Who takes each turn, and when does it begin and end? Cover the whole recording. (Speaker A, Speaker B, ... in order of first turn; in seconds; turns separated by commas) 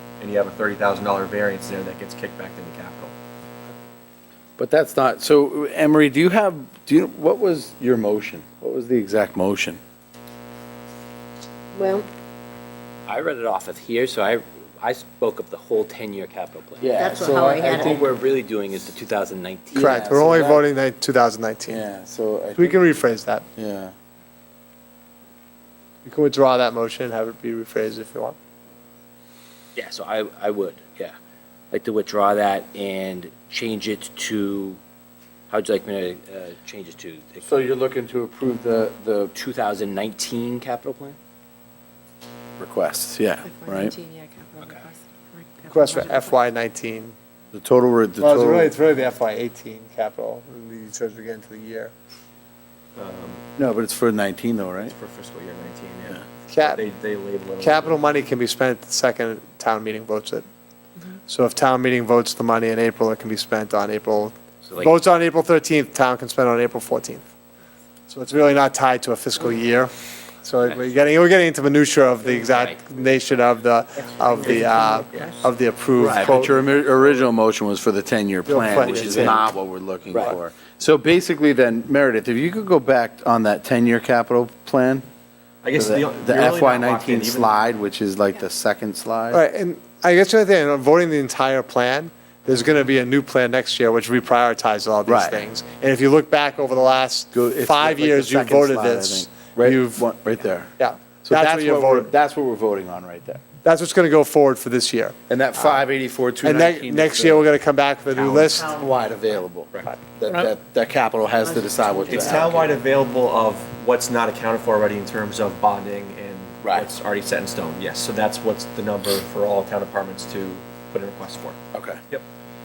Speaker A: 0.2-3.1, Speaker B: 4.6-9.8, Speaker C: 11.7-12.1, Speaker D: 13.1-20.0, Speaker B: 16.8-18.1, Speaker C: 17.0-18.0, Speaker B: 19.7-20.6, Speaker E: 19.8-21.8, Speaker B: 21.7-22.8, Speaker E: 22.6-23.4, Speaker B: 23.6-23.9, Speaker E: 26.0-28.4, Speaker D: 29.7-31.1, Speaker D: 31.7-34.8, Speaker D: 35.5-37.5, Speaker B: 37.4-39.3, Speaker D: 39.3-41.2, Speaker B: 42.6-44.0, Speaker C: 43.5-46.4, Speaker E: 45.7-47.1, Speaker B: 47.5-48.7, Speaker E: 48.2-51.9, Speaker A: 53.0-53.4, Speaker B: 53.6-54.9, Speaker A: 54.9-58.1, Speaker E: 56.5-56.8, Speaker E: 57.6-60.4, Speaker E: 61.3-67.2, Speaker D: 64.6-64.9, Speaker E: 68.1-76.6, Speaker D: 72.2-73.0, Speaker D: 74.6-74.9, Speaker B: 76.0-85.0, Speaker E: 78.5-79.4, Speaker D: 78.8-79.3, Speaker A: 85.6-87.5, Speaker B: 85.7-89.4, Speaker E: 89.3-100.1, Speaker B: 95.0-95.5, Speaker B: 97.3-100.7, Speaker E: 100.8-102.1, Speaker B: 101.2-103.4, Speaker E: 103.6-105.1, Speaker B: 105.3-107.5, Speaker E: 106.4-108.7, Speaker B: 108.2-112.7, Speaker A: 112.0-121.6, Speaker B: 116.6-116.9, Speaker B: 121.7-122.0